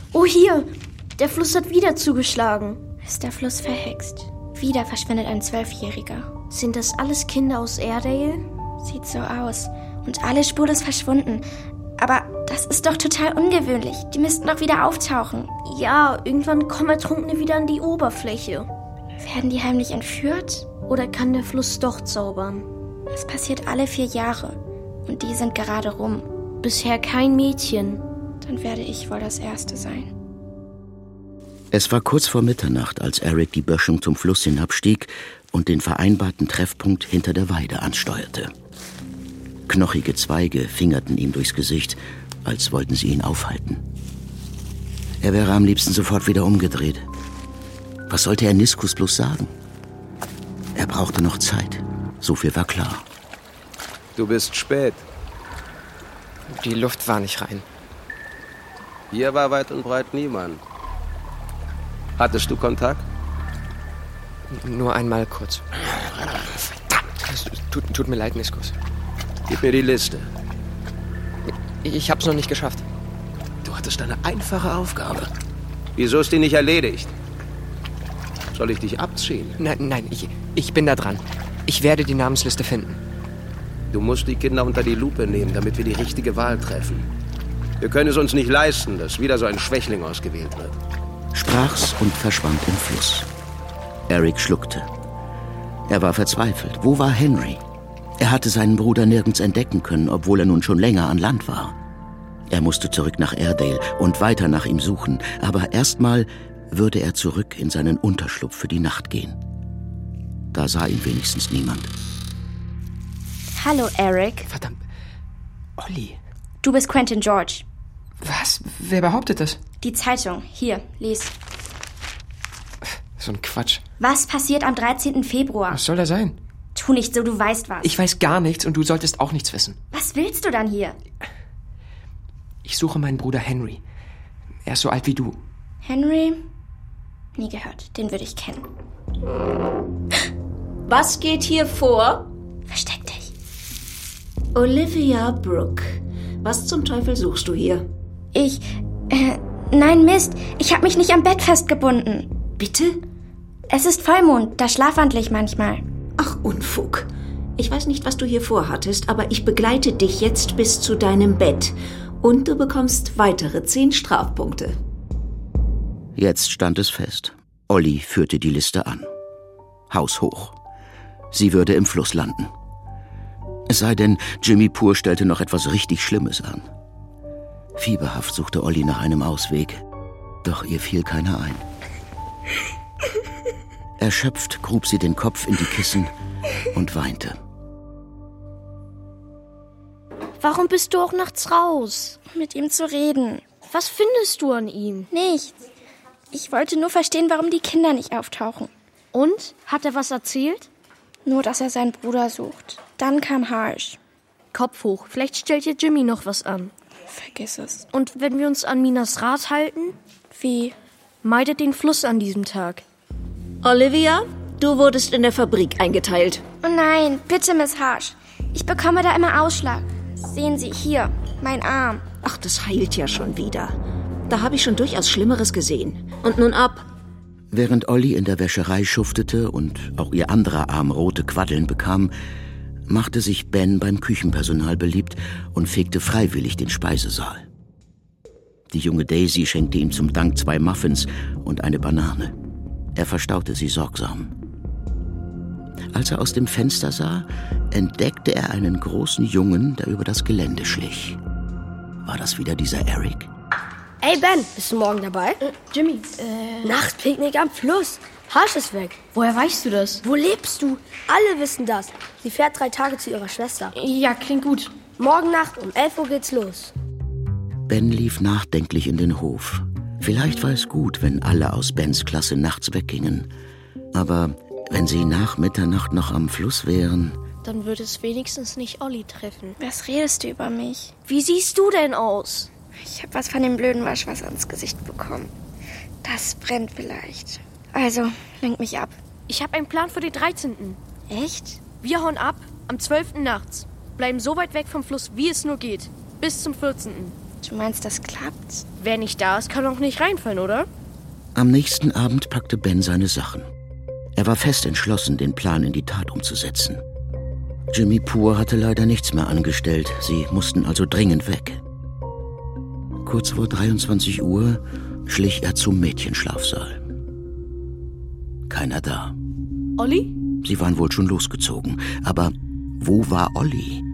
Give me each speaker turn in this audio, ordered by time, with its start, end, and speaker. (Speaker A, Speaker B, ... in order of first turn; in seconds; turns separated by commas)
Speaker A: 0.1-2.8, Speaker B: 3.0-6.3, Speaker A: 6.5-8.5, Speaker B: 8.8-11.5, Speaker B: 12.0-15.5, Speaker A: 15.6-18.7, Speaker B: 19.2-20.7, Speaker A: 20.9-22.7, Speaker B: 23.1-26.3, Speaker A: 26.6-28.0, Speaker B: 28.4-30.1, Speaker C: 31.7-38.5, Speaker C: 39.7-43.8, Speaker C: 45.2-47.1, Speaker C: 48.1-49.5, Speaker C: 50.8-53.1, Speaker D: 54.2-55.0, Speaker E: 56.5-57.6, Speaker D: 59.1-60.6, Speaker D: 62.2-63.0, Speaker E: 64.5-65.7, Speaker E: 67.2-68.7, Speaker D: 69.5-70.3, Speaker E: 71.5-72.8, Speaker D: 73.7-75.3, Speaker D: 76.0-77.1, Speaker D: 78.5-79.6, Speaker E: 79.6-83.0, Speaker D: 83.9-87.1, Speaker D: 87.8-90.8, Speaker C: 91.3-93.3, Speaker C: 94.1-94.9, Speaker C: 95.9-97.6, Speaker C: 98.2-101.8, Speaker C: 102.5-109.4, Speaker C: 110.5-111.9, Speaker B: 113.5-114.5, Speaker E: 114.5-114.8, Speaker E: 115.8-116.2, Speaker B: 116.6-117.6, Speaker E: 118.2-119.6, Speaker B: 119.8-121.3, Speaker E: 123.2-123.8, Speaker B: 124.0-125.8, Speaker E: 125.7-126.4, Speaker B: 126.8-128.0, Speaker E: 127.8-129.8, Speaker B: 129.9-131.0, Speaker E: 132.6-133.8, Speaker E: 134.7-135.4, Speaker B: 135.8-136.4, Speaker B: 137.4-138.7, Speaker F: 140.9-142.3, Speaker B: 142.7-143.3, Speaker F: 144.5-147.9, Speaker B: 148.3-152.3, Speaker F: 152.6-153.0, Speaker B: 153.7-155.8, Speaker F: 156.2-164.8, Speaker C: 166.2-169.1, Speaker C: 169.9-170.6, Speaker C: 171.3-172.5, Speaker C: 173.7-176.7, Speaker C: 177.8-179.8, Speaker C: 180.4-181.7, Speaker C: 184.0-186.1, Speaker C: 186.7-187.4, Speaker A: 190.4-192.2, Speaker B: 192.3-193.4, Speaker A: 193.7-195.1, Speaker B: 195.1-195.6, Speaker B: 196.3-198.7, Speaker A: 199.1-200.7, Speaker B: 201.2-204.0, Speaker A: 204.5-206.7, Speaker B: 207.1-207.9, Speaker A: 207.9-210.0, Speaker B: 210.3-210.8, Speaker A: 211.2-212.8, Speaker F: 213.6-216.4, Speaker B: 216.6-222.1, Speaker F: 222.2-223.8, Speaker F: 224.3-226.9, Speaker C: 227.5-232.1, Speaker C: 232.9-237.5, Speaker C: 238.7-242.3, Speaker C: 242.9-244.3, Speaker C: 245.9-251.2, Speaker C: 252.0-253.3, Speaker G: 254.0-255.4, Speaker A: 255.4-256.8, Speaker G: 256.6-259.0, Speaker A: 259.1-260.0, Speaker G: 260.0-263.7, Speaker A: 263.7-264.7, Speaker G: 265.0-266.7, Speaker C: 267.7-273.3, Speaker C: 273.9-277.2, Speaker A: 277.4-279.6, Speaker B: 279.6-280.9, Speaker A: 281.1-282.5, Speaker B: 282.8-285.3, Speaker B: 286.0-289.0, Speaker A: 289.3-290.8, Speaker B: 291.1-291.6, Speaker A: 291.8-297.2, Speaker B: 297.4-298.6, Speaker A: 298.8-300.7, Speaker C: 301.4-303.5, Speaker C: 304.2-306.8, Speaker C: 307.7-311.6, Speaker C: 313.0-316.8, Speaker C: 318.5-319.1, Speaker A: 319.8-320.2, Speaker C: 320.4-323.8